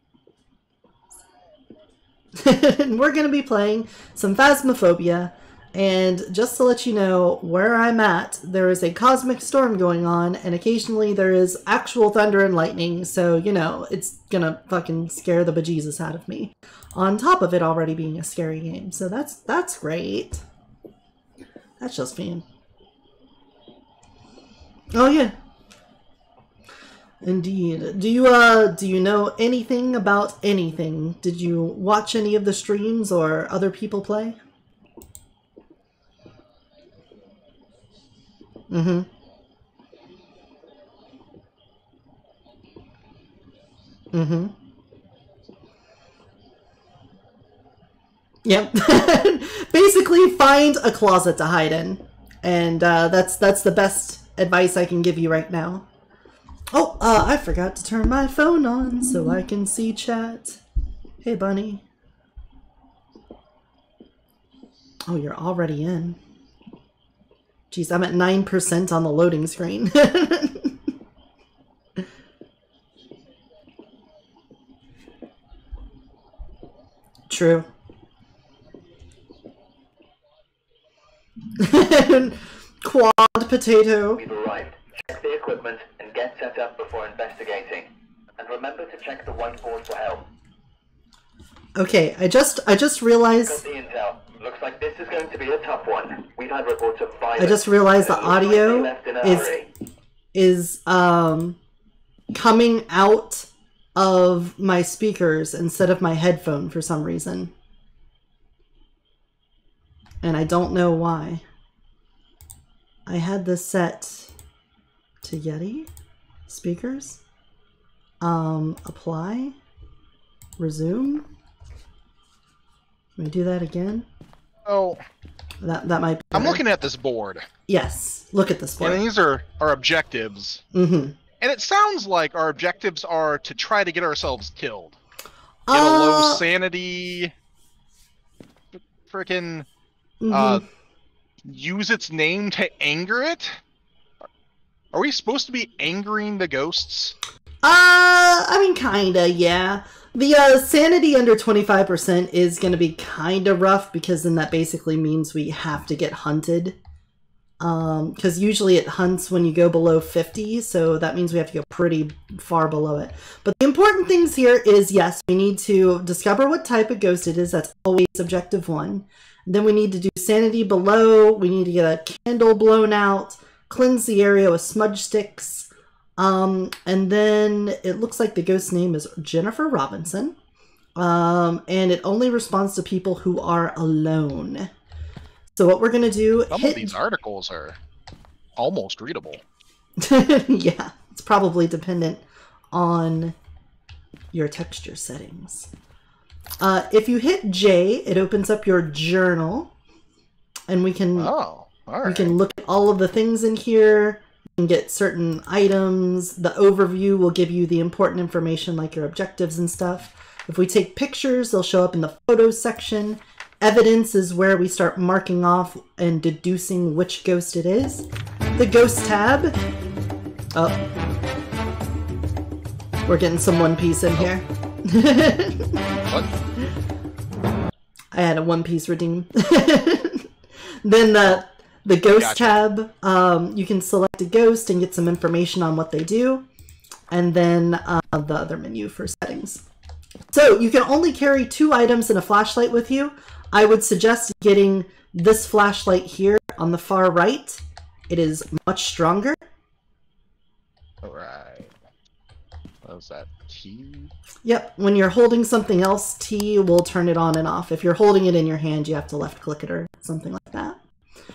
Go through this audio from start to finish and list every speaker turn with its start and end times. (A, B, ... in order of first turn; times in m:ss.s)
0:02.4-0:20.4 A
0:21.8-0:22.4 A
0:24.9-0:25.3 A
0:27.2-0:34.4 A
0:38.7-0:39.1 A
0:44.1-0:44.5 A
0:48.4-0:55.8 A
0:56.7-1:00.6 A
1:01.2-1:01.8 A
1:05.1-1:06.2 A
1:07.7-1:10.8 A
1:17.3-1:17.7 A
1:21.6-1:24.2 A
1:24.2-1:30.3 B
1:31.8-1:33.6 A
1:33.4-1:39.7 B
1:37.4-1:39.5 A
1:40.3-1:41.6 A
1:42.3-1:47.5 A
1:50.2-1:51.4 A
1:53.1-1:54.3 A
1:55.2-1:55.9 A
1:56.5-1:57.2 A
1:58.2-1:59.6 A
2:00.6-2:01.3 A
2:03.2-2:04.0 A
2:04.6-2:05.0 C
2:05.6-2:06.6 A
2:06.3-2:07.5 C
2:07.7-2:09.0 A
2:08.8-2:10.6 C
2:10.7-2:11.2 A
2:11.4-2:14.9 C
2:15.7-2:16.4 A
2:15.7-2:17.3 C
2:18.7-2:19.7 C
2:20.2-2:20.6 A
2:20.3-2:20.6 C
2:21.4-2:23.6 C
2:24.9-2:27.1 C
2:27.6-2:36.8 A
2:37.6-3:00.4 A
3:01.0-3:04.7 A
3:05.5-3:07.0 A
3:06.5-3:07.8 C
3:08.6-3:09.4 C
3:10.0-3:13.3 A
3:14.3-3:15.7 A
3:16.6-3:19.7 A
3:20.7-3:21.3 A
3:21.2-3:22.3 C
3:22.0-3:39.6 A
3:40.5-3:40.8 A
3:43.0-3:45.8 A
3:48.1-3:50.3 A
3:50.8-3:56.5 A
3:52.0-3:52.6 C
3:57.1-3:59.6 A
4:00.3-4:09.4 A
4:11.0-4:11.7 C
4:12.8-4:14.1 C
4:14.4-4:20.8 A